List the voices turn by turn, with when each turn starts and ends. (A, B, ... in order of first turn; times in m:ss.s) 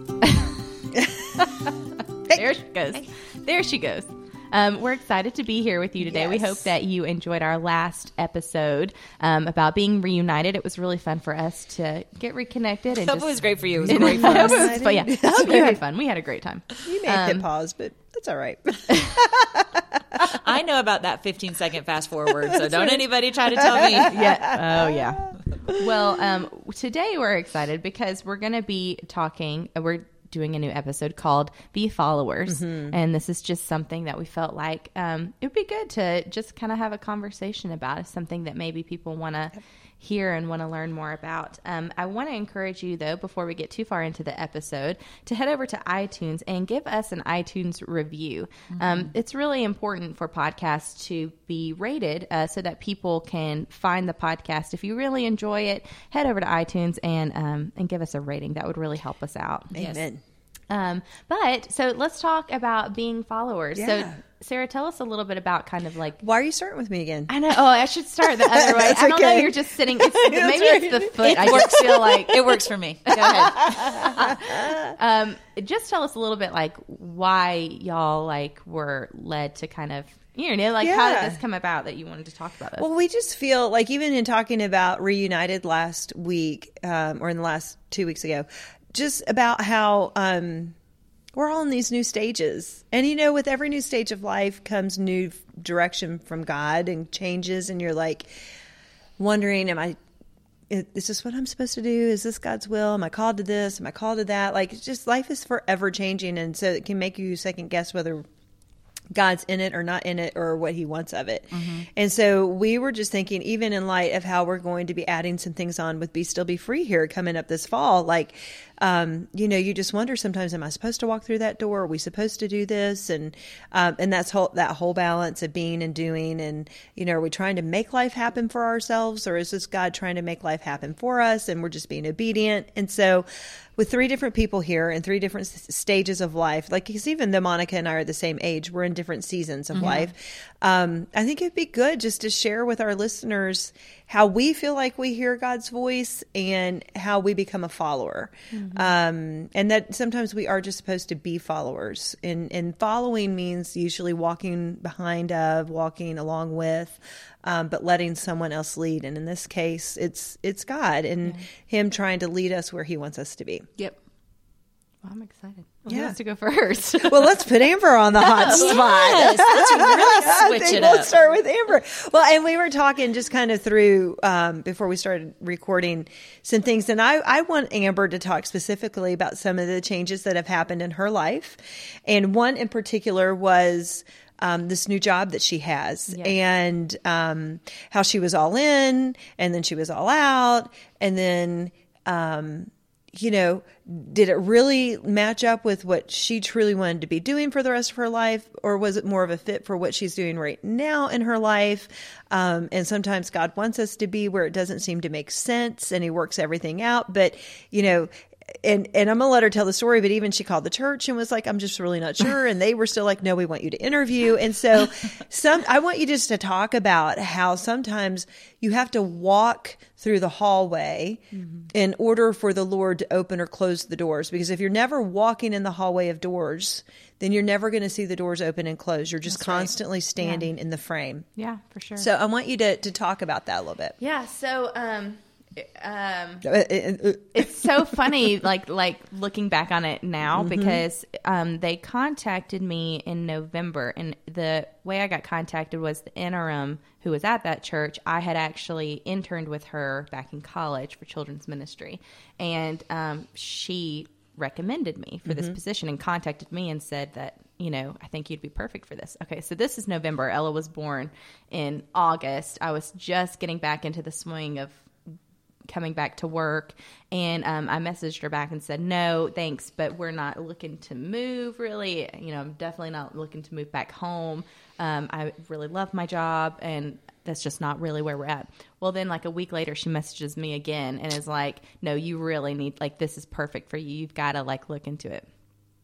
0:00.3-0:00.5 A
0:00.9-0:01.4 B
0:02.3-0:17.4 A
0:06.0-0:06.7 B
0:12.9-0:14.8 C
0:13.8-0:15.8 B
0:16.8-0:20.2 B
0:20.3-0:24.5 C
0:22.4-1:00.0 A
0:22.5-0:23.0 B
0:23.6-0:25.8 B
0:32.5-0:33.0 B
0:48.7-0:49.1 C
0:59.7-1:00.2 B
1:00.7-1:06.2 A
1:03.7-1:04.2 B
1:06.2-1:07.3 B
1:07.3-1:22.9 A
1:08.4-1:12.2 B
1:11.2-1:14.3 C
1:13.2-1:15.0 B
1:20.8-1:21.4 B
1:22.8-1:30.8 B
1:31.3-1:38.3 B
1:39.2-1:40.0 B
1:40.7-1:48.3 B
1:49.1-2:43.7 B
2:19.8-2:20.1 A
2:28.5-2:28.9 A
2:45.0-2:47.5 A
2:45.9-2:46.2 B
2:47.0-3:51.2 B
2:48.2-2:51.0 A
2:48.4-2:51.1 C
3:06.1-3:06.3 A
3:49.3-3:50.4 A
3:51.4-3:52.1 A
3:52.0-3:53.9 B
3:54.0-3:56.4 A
3:56.4-3:57.9 B
3:57.3-4:24.9 A
4:00.3-4:00.8 B
4:15.2-4:15.6 B
4:25.7-4:45.2 A